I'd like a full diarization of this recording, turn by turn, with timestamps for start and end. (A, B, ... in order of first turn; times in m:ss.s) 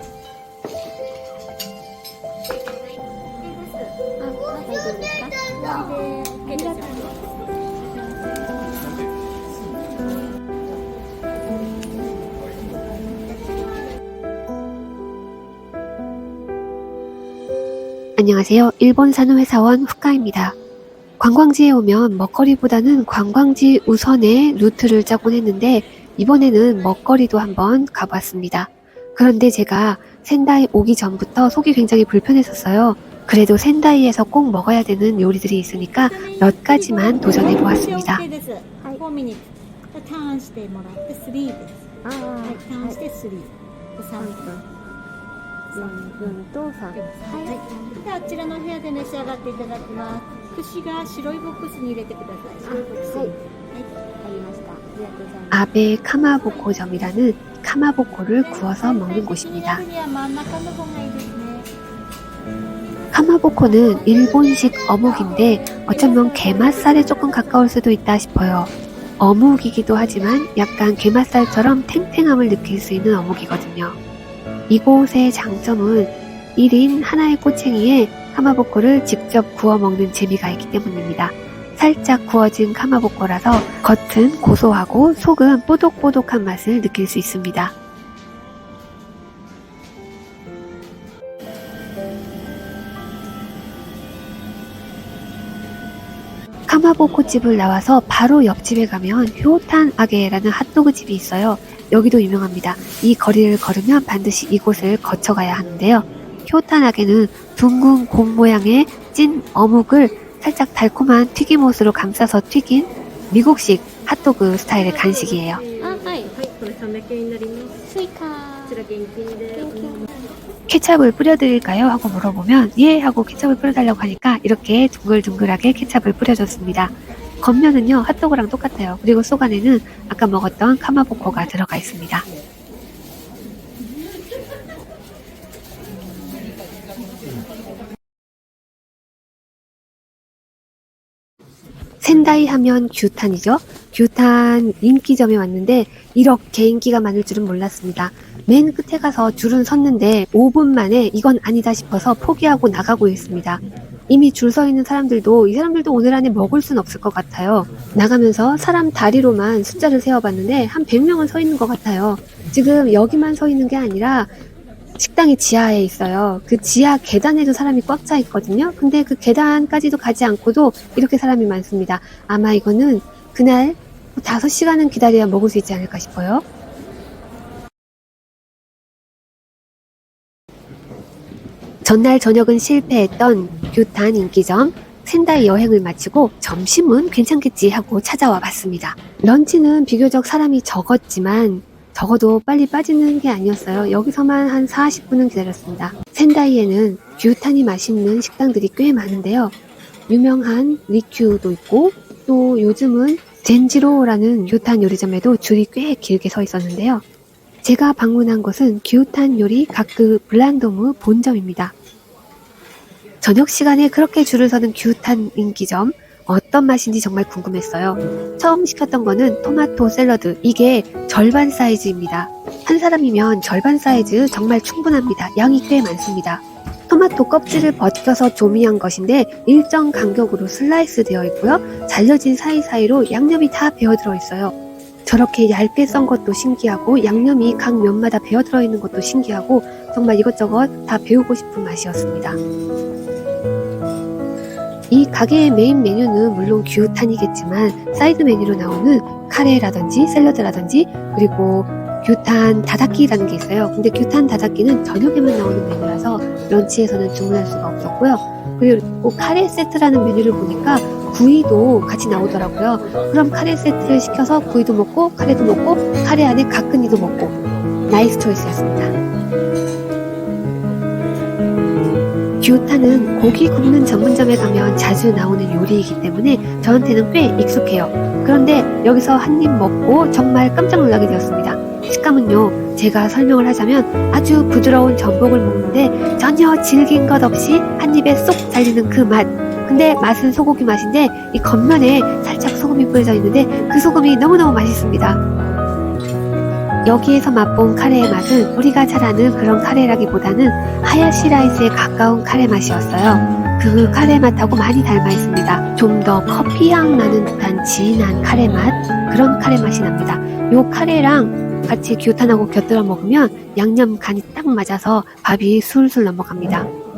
0:03.4-0:03.9 A
0:04.2-0:05.4 B
0:05.6-0:08.5 A
0:18.2-0:20.6 C
0:21.2-0:38.2 C
0:36.0-0:41.8 A
0:42.0-0:43.0 B
0:42.4-0:44.4 A
0:44.2-0:44.7 B
0:45.7-0:47.6 B
0:47.0-0:53.9 A
0:52.6-0:53.4 B
0:54.2-0:55.7 B
0:55.5-0:59.8 C
0:56.3-0:56.8 A
0:58.5-1:01.7 A
1:03.1-1:14.0 C
1:05.0-1:07.7 A
1:14.7-1:27.7 C
1:24.6-1:25.3 B
1:36.7-1:55.6 C
1:55.8-1:56.4 B
1:57.8-1:58.9 B
1:59.5-2:00.1 B
2:00.7-2:12.3 C
2:22.0-2:44.3 C
2:45.0-2:56.4 C
3:01.8-3:19.5 C
3:20.1-3:27.0 C
3:27.6-3:31.7 C
3:33.2-3:54.5 C
3:55.1-4:02.4 C
4:04.9-4:27.4 C
4:27.9-4:28.9 C
4:32.4-4:55.2 C
4:56.8-5:16.7 C